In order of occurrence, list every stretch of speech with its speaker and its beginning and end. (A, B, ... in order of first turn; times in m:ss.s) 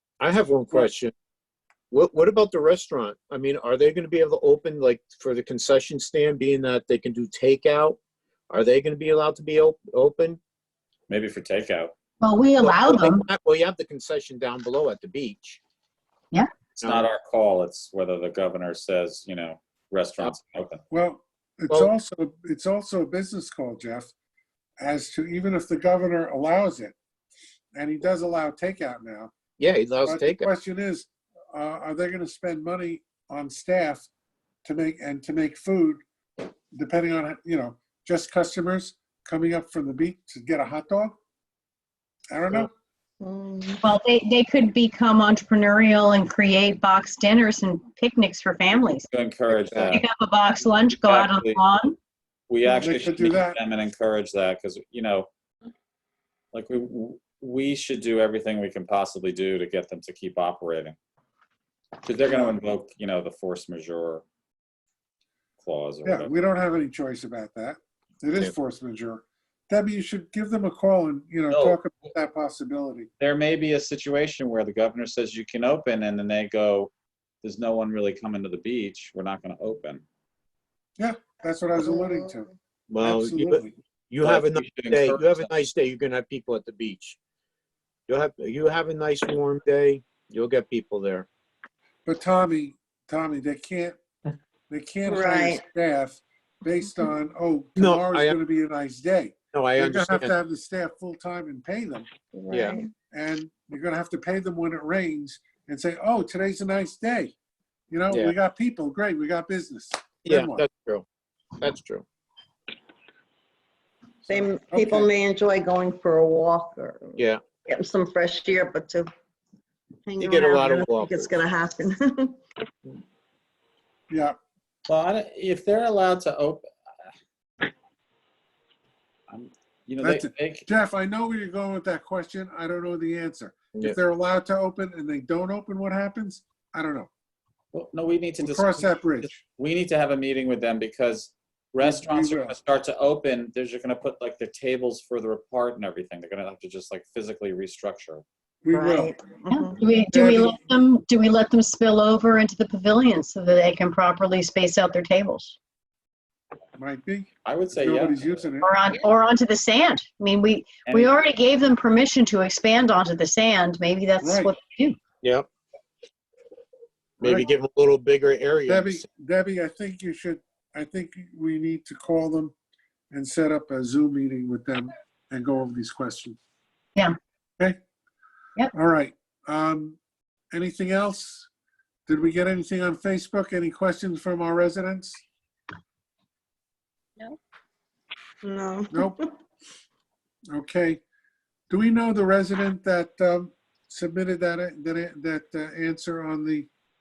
0:00.2-0:01.1 A
0:01.9-0:08.0 A
0:08.5-0:10.4 A
0:11.1-0:12.0 B
0:12.2-0:13.3 C
0:12.6-0:15.6 A
0:16.8-0:17.1 A
0:16.8-0:20.8 B
0:20.9-0:24.1 D
0:24.8-0:27.0 D
0:27.8-0:29.3 D
0:29.6-0:30.5 A
0:30.0-0:34.1 D
0:34.6-0:36.0 D
0:36.7-0:41.2 D
0:42.3-0:42.7 D
0:43.2-0:43.8 E
0:43.8-0:49.1 C
0:49.0-0:50.0 B
0:49.6-0:50.0 A
0:49.9-0:52.0 C
0:51.0-0:51.6 B
0:52.5-0:55.3 B
0:52.6-0:53.6 D
0:56.5-1:01.0 B
1:02.0-1:04.2 B
1:02.2-1:02.6 D
1:05.6-1:06.3 B
1:06.0-1:13.1 D
1:11.5-1:11.8 B
1:13.2-1:16.9 B
1:17.4-1:20.0 B
1:21.0-1:22.5 D
1:21.8-1:22.3 E
1:22.9-1:27.2 A
1:23.0-1:23.7 D
1:24.2-1:25.5 B
1:28.1-1:31.3 A
1:32.1-1:34.0 D
1:34.7-1:42.1 D
1:35.1-1:35.6 E
1:37.8-1:38.4 A
1:39.5-1:40.3 A
1:42.3-1:42.9 E
1:42.5-1:42.8 A
1:43.1-1:47.3 D
1:47.9-1:50.6 D
1:50.3-1:51.1 A
1:51.6-1:52.0 A
1:54.3-1:55.1 D
1:54.3-1:59.1 E
2:00.1-2:02.4 E
2:00.2-2:01.4 A
2:04.1-2:04.4 D
2:04.9-2:06.7 B
2:09.3-2:10.7 B
2:10.0-2:17.1 D
2:17.7-2:28.2 B
2:18.4-2:19.4 D
2:21.8-2:22.6 D
2:28.6-2:29.2 D
2:28.7-2:29.8 E
2:29.5-2:35.6 C
2:30.1-2:30.6 D
2:36.8-2:38.7 D
2:37.4-2:38.5 B
2:38.6-2:45.0 C
2:40.8-2:41.2 B
2:44.2-2:44.5 D
2:45.2-2:45.5 A
2:47.2-2:47.5 D
2:47.2-2:49.0 A
2:48.7-2:52.5 D
2:53.1-2:56.4 D
2:58.7-3:00.0 D
3:00.5-3:01.5 D
3:02.1-3:05.2 D
3:08.4-3:09.2 E
3:08.9-3:09.2 D
3:10.5-3:11.0 D
3:11.7-3:16.7 D